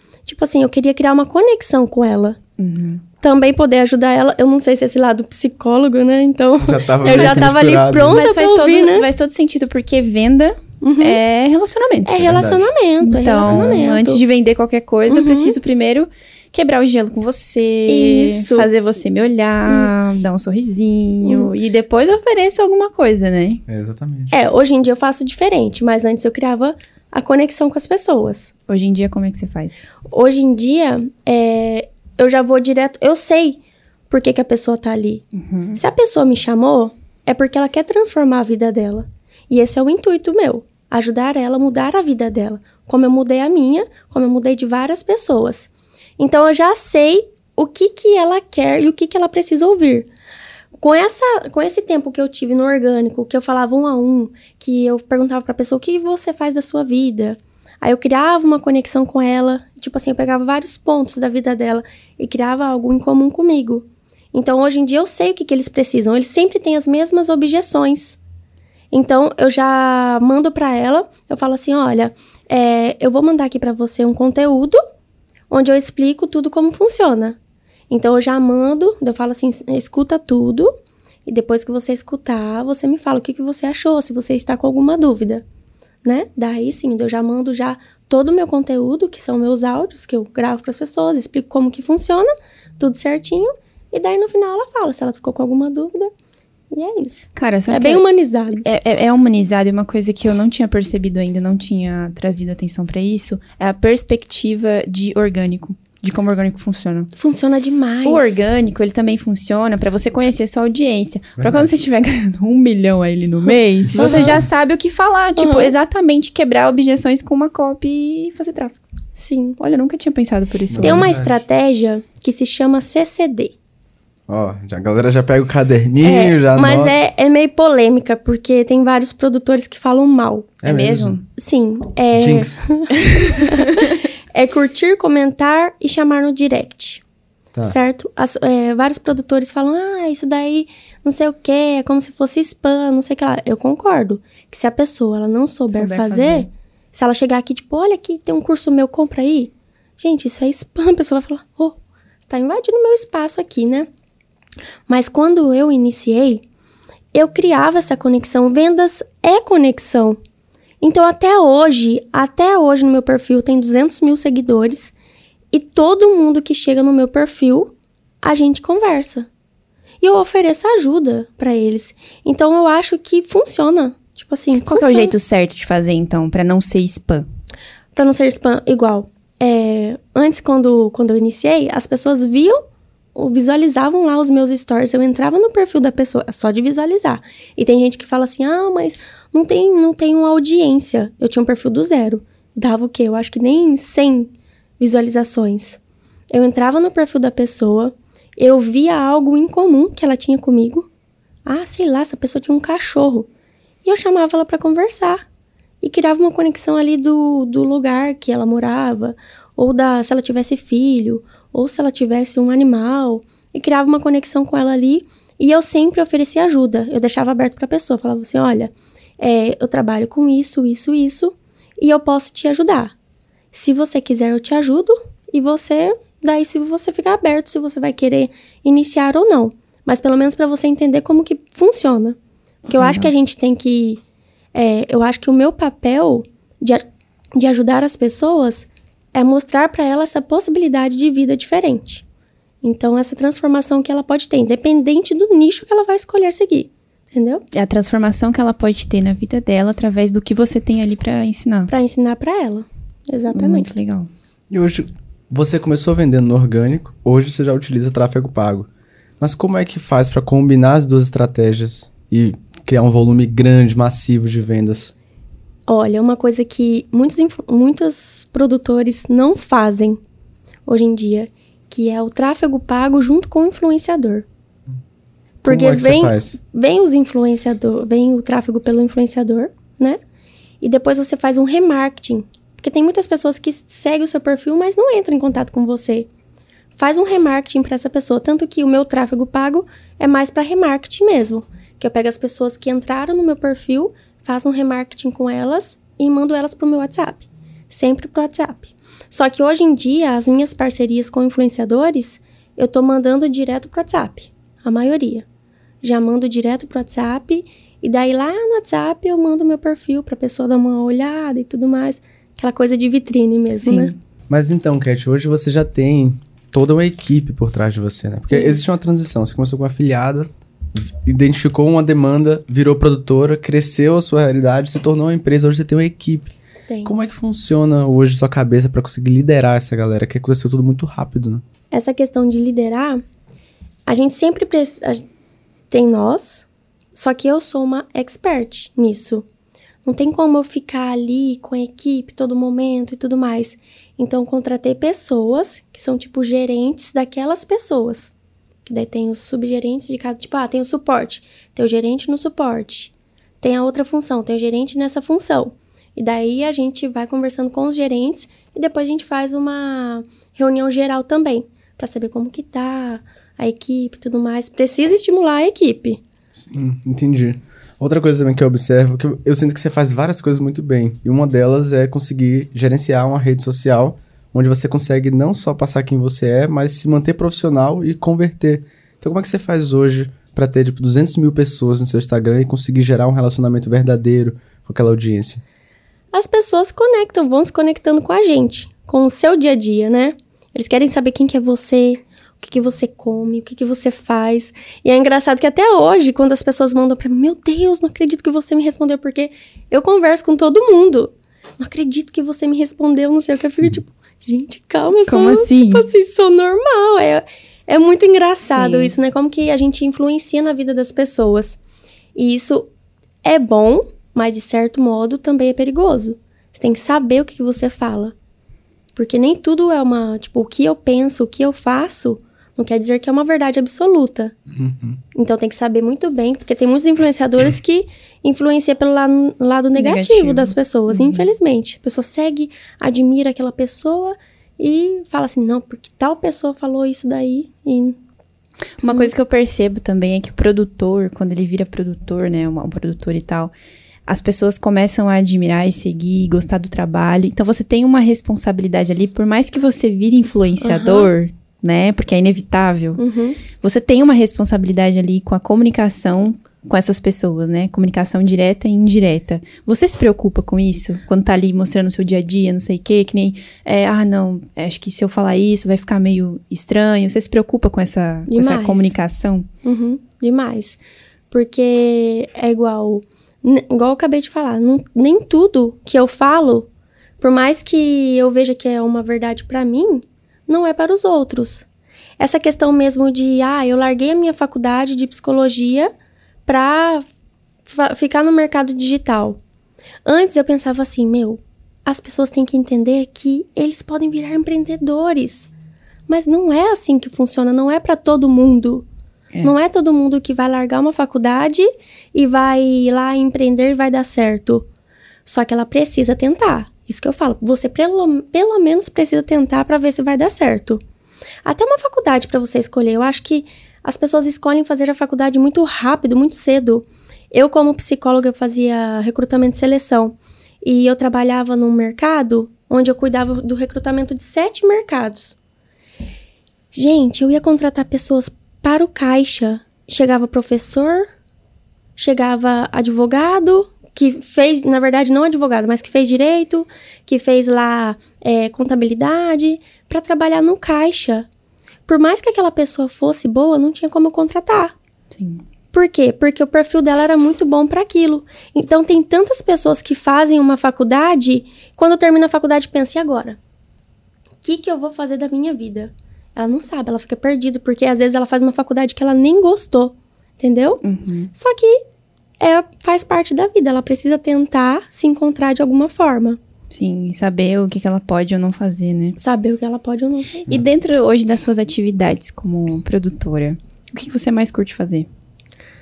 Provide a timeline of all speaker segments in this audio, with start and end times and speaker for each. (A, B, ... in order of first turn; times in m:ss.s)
0:00.2-0:02.4 A
0:02.6-0:03.0 B
0:03.2-0:09.1 A
0:06.6-0:08.2 C
0:08.0-0:12.4 B
0:10.8-0:11.2 A
0:12.0-0:14.2 A
0:12.2-0:12.7 C
0:13.0-0:23.6 B
0:13.4-0:13.9 C
0:15.1-0:15.6 A
0:17.9-0:18.7 A
0:19.7-0:19.9 A
0:21.2-0:21.5 A
0:23.7-0:24.3 C
0:24.3-0:28.5 A
0:28.7-0:29.8 B
0:30.0-0:33.6 A
0:34.1-0:35.2 A
0:35.3-0:35.8 B
0:35.7-0:50.1 A
0:50.8-1:08.2 A
1:08.9-1:14.8 A
1:15.5-1:17.4 A
1:17.9-1:20.7 A
1:21.2-1:25.4 A
1:26.0-1:36.1 A
1:36.7-1:38.6 A
1:37.3-1:38.0 B
1:38.6-1:47.1 B
1:47.2-1:48.4 A
1:48.0-1:58.8 B
1:51.4-1:51.7 C
1:54.0-1:54.4 A
1:55.4-1:55.7 A
1:59.1-1:59.6 A
1:59.6-2:01.1 B
2:00.7-2:01.4 C
2:00.8-2:03.5 A
2:04.3-2:07.0 C
2:06.0-2:10.6 A
2:10.6-2:11.1 C
2:10.6-2:11.2 B
2:11.4-2:17.0 A
2:12.1-2:12.6 C
2:13.0-2:13.9 B
2:17.6-2:33.9 A
2:25.7-2:26.5 B
2:34.9-2:36.4 A
2:37.1-2:40.2 A
2:40.8-2:44.9 A
2:45.5-2:49.3 A
2:50.0-2:55.1 A
2:54.6-2:57.2 B
2:57.9-3:02.6 A
3:03.1-3:15.8 A
3:16.3-3:20.9 A
3:21.4-3:23.3 A
3:23.8-3:25.2 A
3:25.8-3:42.9 A
3:43.5-3:52.2 A
3:52.7-3:53.1 B
3:52.7-3:54.0 A
3:54.5-3:56.8 A
3:57.4-4:02.0 A
4:02.6-4:07.4 A
4:07.5-4:11.7 B
4:11.7-4:13.7 A
4:13.3-4:14.1 B
4:14.5-4:18.7 C
4:19.2-4:24.9 C
4:25.7-4:30.0 A
4:30.6-4:34.2 A
4:35.4-4:36.4 C
4:35.4-4:40.0 A
4:40.6-4:46.1 A
4:46.8-5:05.2 A
5:05.8-5:13.9 A
5:13.6-5:14.0 B
5:14.3-5:31.4 C
5:26.7-5:26.9 A
5:31.7-5:33.0 A
5:33.9-5:35.0 A
5:35.7-5:39.2 A
5:39.8-5:48.1 A
5:48.6-6:06.0 A
6:06.5-6:25.4 C
6:26.1-6:51.6 A
6:45.1-6:45.9 B
6:48.5-6:48.9 B
6:52.1-6:52.7 A
6:53.2-6:58.1 A
6:58.9-7:04.3 A
7:04.5-7:05.0 C
7:05.1-7:18.0 A
7:09.8-7:11.3 B
7:18.8-7:23.5 B
7:24.1-7:33.0 B
7:30.6-7:31.1 A
7:33.0-7:33.4 A
7:33.6-7:49.5 B
7:48.3-7:48.9 A
7:49.6-7:50.8 A
7:51.3-7:56.7 A
7:57.2-8:01.6 A
8:02.2-8:05.9 A
8:06.4-8:07.1 A
8:07.6-8:09.4 A
8:10.0-8:15.5 A
8:16.1-8:18.8 A
8:19.4-8:24.7 A
8:25.2-8:30.8 A
8:31.4-8:45.3 A
8:46.7-8:51.1 A
8:52.0-9:01.3 A
9:01.8-9:04.7 A
9:05.1-9:05.4 B
9:05.7-9:13.4 A
9:14.4-9:20.8 A
9:20.8-9:21.3 B
9:21.3-9:21.8 A
9:22.4-9:26.4 A
9:26.7-9:29.2 B
9:29.2-9:30.5 A
9:30.5-9:35.1 B